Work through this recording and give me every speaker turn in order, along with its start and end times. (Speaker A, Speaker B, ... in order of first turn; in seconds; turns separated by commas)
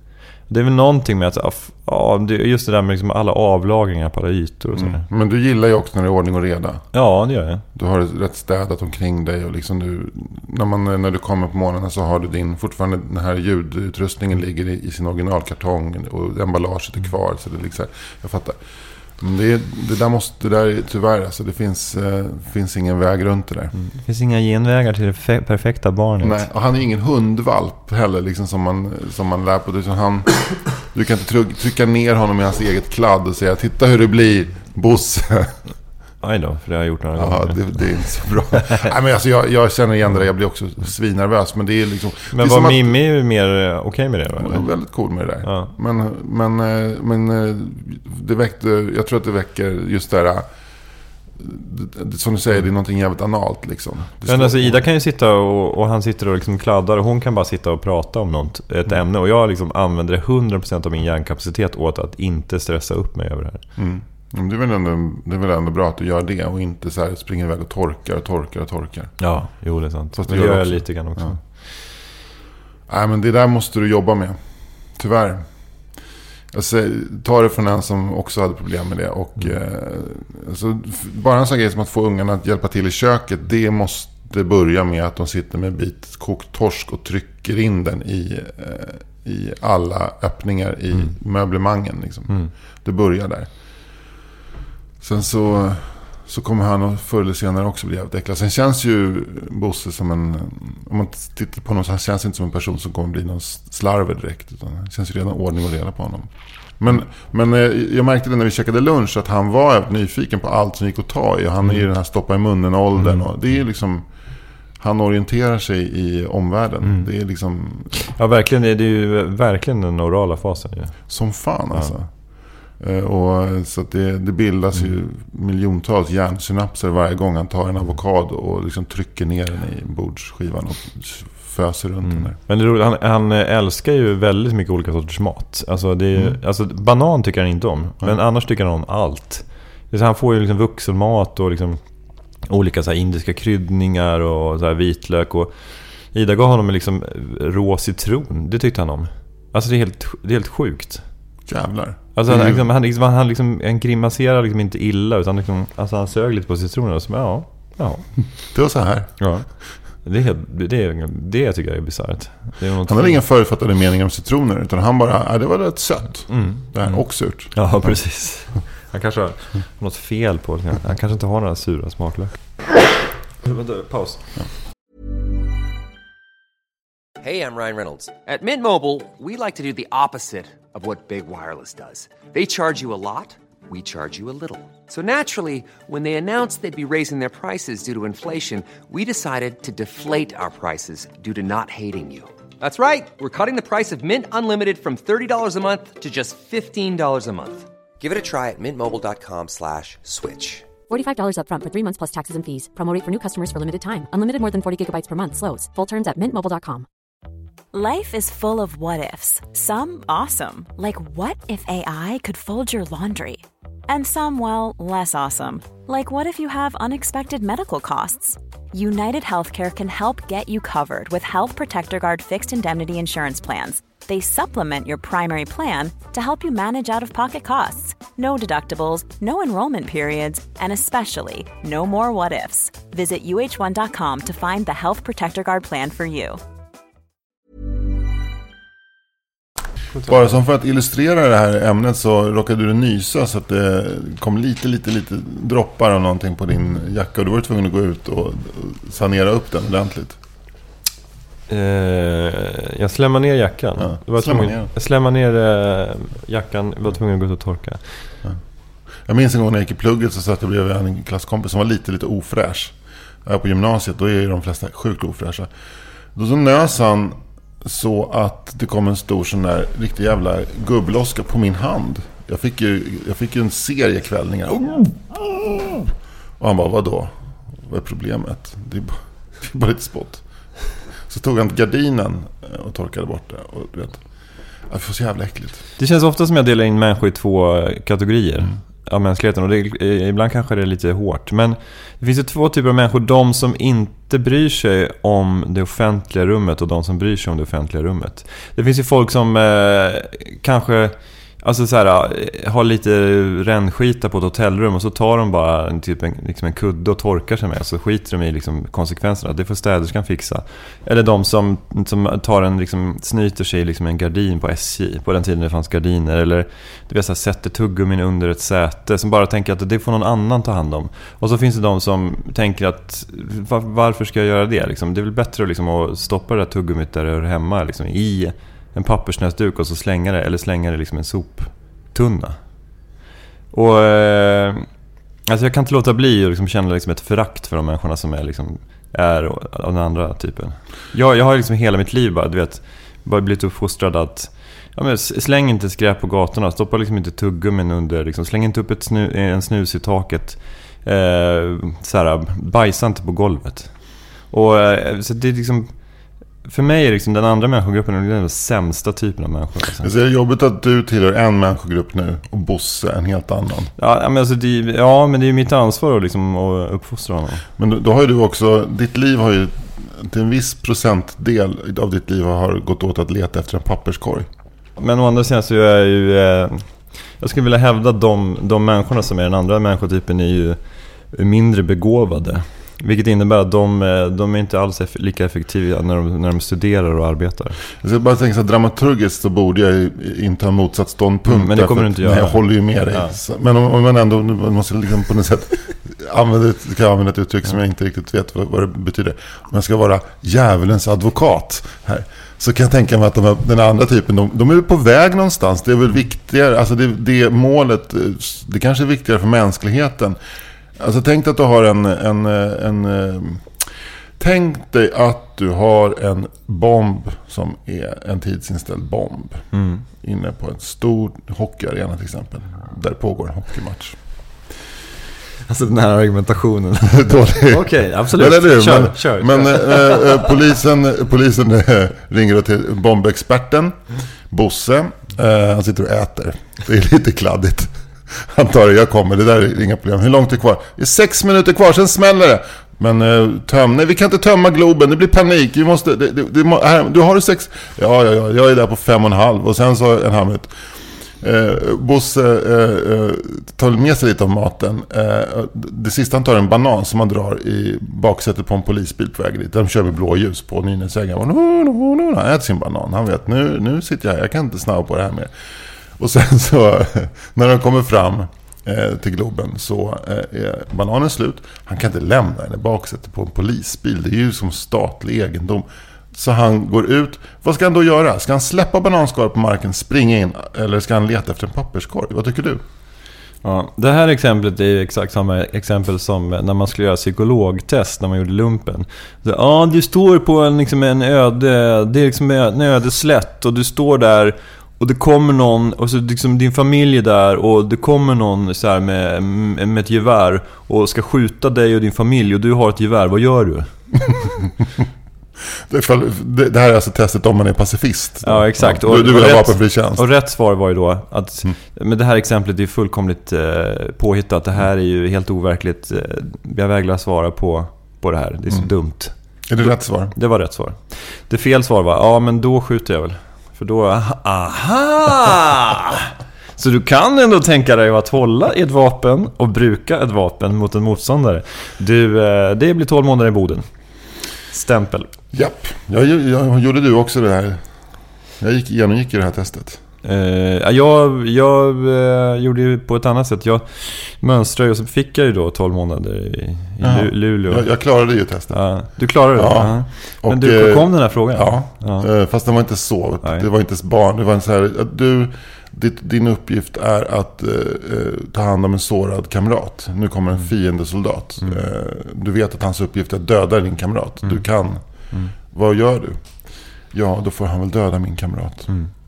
Speaker A: 0.5-5.0, Speaker B: 4.7-6.9, Speaker A: 6.9-7.6, Speaker B: 7.7-18.6, Speaker B: 19.1-23.7, Speaker A: 23.8-26.5, Speaker B: 26.2-35.5, Speaker A: 36.2-37.8, Speaker B: 37.1-42.9, Speaker A: 42.3-44.7, Speaker B: 44.4-50.5, Speaker A: 45.4-45.7, Speaker B: 51.4-54.8, Speaker A: 54.2-63.6, Speaker B: 63.8-69.3, Speaker A: 69.2-71.4, Speaker B: 70.2-71.3, Speaker B: 72.9-74.4, Speaker B: 74.9-75.5, Speaker B: 76.5-93.5, Speaker B: 95.0-114.0, Speaker A: 113.0-113.2, Speaker B: 114.8-118.0, Speaker A: 116.8-117.1, Speaker A: 118.0-121.1, Speaker B: 121.1-122.1, Speaker B: 122.7-132.3, Speaker A: 132.0-141.8, Speaker A: 142.4-151.0, Speaker B: 151.4-152.7, Speaker A: 152.1-158.4, Speaker B: 158.5-159.3, Speaker A: 159.2-163.2, Speaker B: 162.8-167.6, Speaker A: 166.3-172.4, Speaker A: 173.4-174.3, Speaker C: 177.2-200.7, Speaker D: 200.9-206.8, Speaker E: 207.7-236.4, Speaker A: 239.9-240.3, Speaker B: 240.0-250.2, Speaker A: 251.5-258.1, Speaker B: 253.8-254.7, Speaker B: 259.0-265.5, Speaker B: 266.1-280.2, Speaker B: 281.1-284.0, Speaker B: 284.7-285.6, Speaker A: 285.8-332.4, Speaker A: 333.5-334.7, Speaker A: 335.3-355.8, Speaker A: 356.4-359.9, Speaker B: 359.8-363.7, Speaker A: 363.8-367.4, Speaker B: 367.6-374.3, Speaker A: 374.8-387.6, Speaker B: 387.8-410.2, Speaker A: 391.2-393.1, Speaker B: 410.8-413.6, Speaker B: 414.2-424.0, Speaker A: 419.5-419.8, Speaker A: 425.5-430.4, Speaker B: 426.9-433.8, Speaker B: 434.3-450.5, Speaker B: 451.2-465.3, Speaker B: 466.0-482.6, Speaker A: 483.4-503.7, Speaker B: 505.7-510.1, Speaker A: 508.2-533.6, Speaker B: 519.5-520.1, Speaker A: 534.5-535.1, Speaker B: 535.3-537.6, Speaker B: 538.4-539.8, Speaker A: 540.0-547.7, Speaker B: 546.8-548.6, Speaker A: 548.5-552.1, Speaker B: 549.3-568.8